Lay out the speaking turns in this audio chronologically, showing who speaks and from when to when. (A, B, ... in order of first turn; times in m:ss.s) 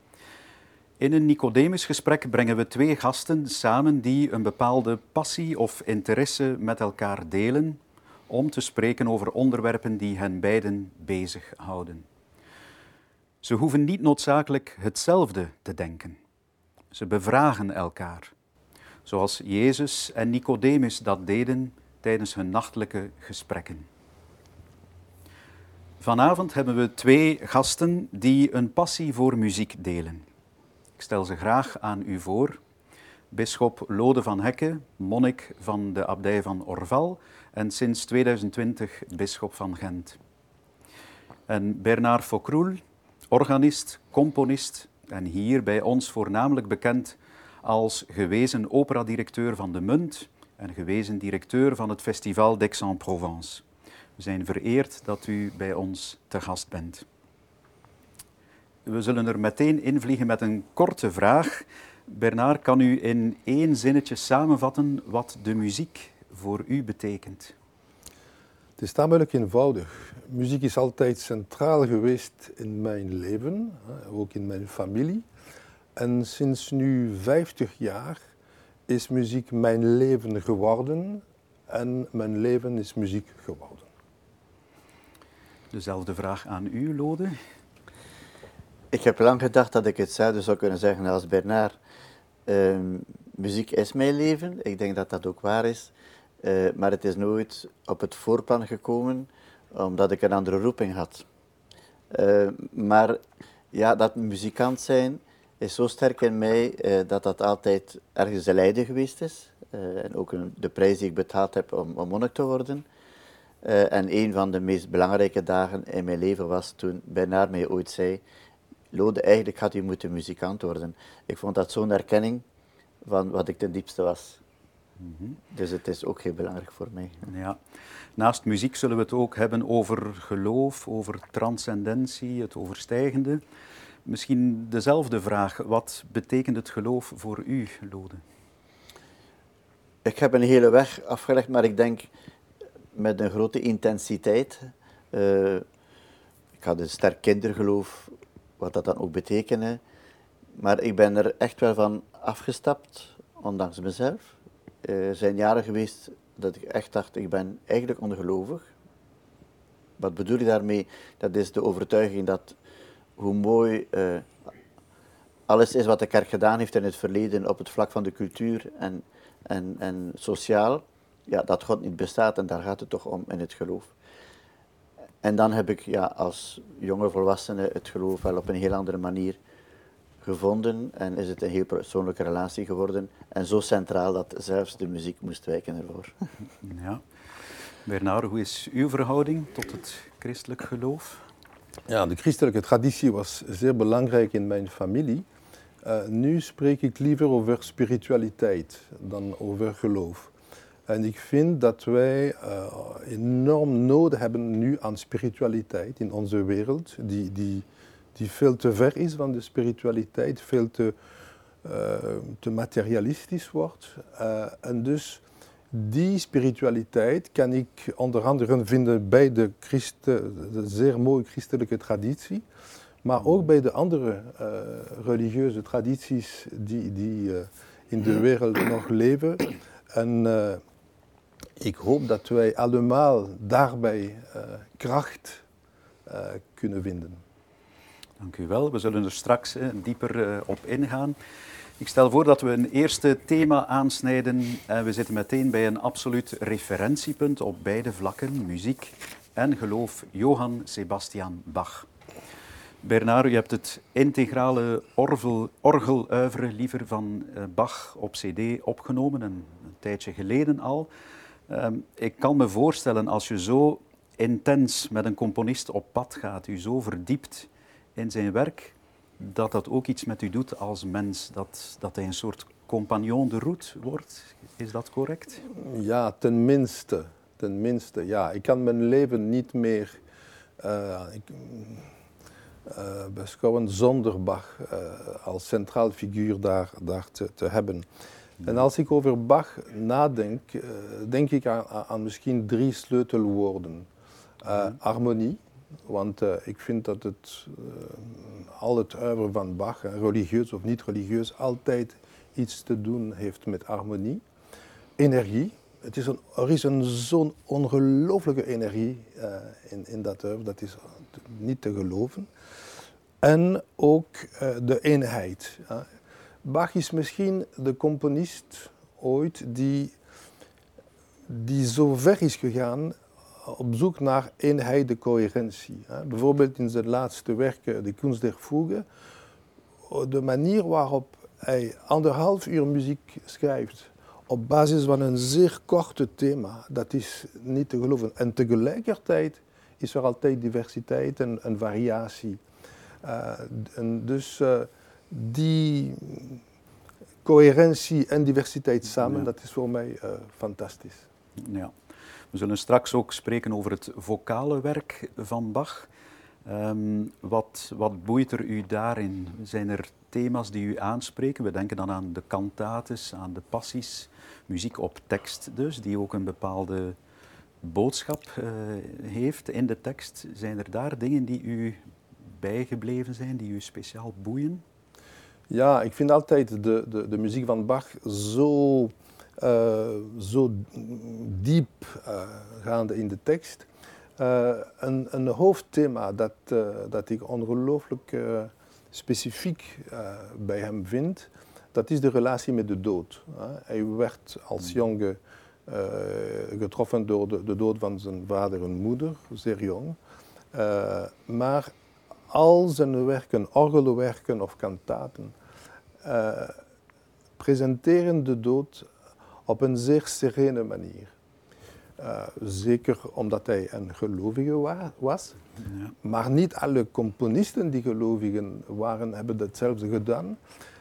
0:01.0-0:12.1 A
0:13.4-0:16.2 A
0:16.9-0:18.3 A
0:19.0-0:23.9 A
0:26.0-0:30.2 A
0:31.0-0:32.6 A
0:33.3-0:40.2 A
0:41.5-0:53.6 A
0:54.2-0:57.0 A
0:58.8-1:07.5 A
1:08.8-1:15.2 B
1:16.0-1:18.2 B
1:18.9-1:23.9 B
1:25.7-1:27.4 A
1:28.9-1:31.8 C
1:32.5-1:35.9 C
1:36.4-1:41.2 C
1:42.1-1:43.2 C
1:43.7-1:52.8 C
1:53.6-1:58.2 C
1:58.9-2:02.4 C
2:03.0-2:04.4 C
2:05.0-2:05.4 A
2:05.5-2:07.2 C
2:07.2-2:07.6 A
2:08.2-2:13.4 A
2:14.0-2:18.2 A
2:20.0-2:22.1 C
2:22.9-2:25.6 C
2:26.6-2:29.8 C
2:30.5-2:38.7 C
2:40.0-2:42.5 C
2:43.2-2:44.3 C
2:45.5-2:53.9 C
2:55.2-2:59.4 C
3:00.2-3:06.2 C
3:06.6-3:07.0 A
3:07.8-3:11.2 A
3:11.9-3:15.2 B
3:15.8-3:20.3 B
3:20.9-3:30.9 B
3:31.6-3:42.4 B
3:43.0-3:50.6 B
3:51.6-3:55.4 B
3:56.0-3:57.2 B
3:58.2-4:01.2 A
4:01.8-4:11.9 A
4:12.8-4:20.9 A
4:21.5-4:35.4 A
4:35.5-4:40.0 B
4:40.6-4:41.9 B
4:42.6-4:47.9 B
4:48.4-4:53.9 B
4:54.4-5:04.2 B
5:05.0-5:12.3 B
5:13.2-5:15.9 B
5:16.4-5:19.9 B
5:21.3-5:28.8 B
5:29.8-5:42.4 B
5:43.0-5:46.4 B
5:47.2-5:51.0 B
5:51.4-5:51.7 A
5:52.3-5:55.9 A
5:56.4-6:07.0 A
6:07.6-6:14.6 A
6:15.5-6:40.0 B
6:40.5-6:41.7 B
6:42.3-6:45.3 B
6:46.0-6:46.6 B
6:47.4-6:48.9 B
6:49.4-6:51.1 B
6:52.0-6:55.4 B
6:55.7-6:55.9 A
6:56.0-7:00.4 B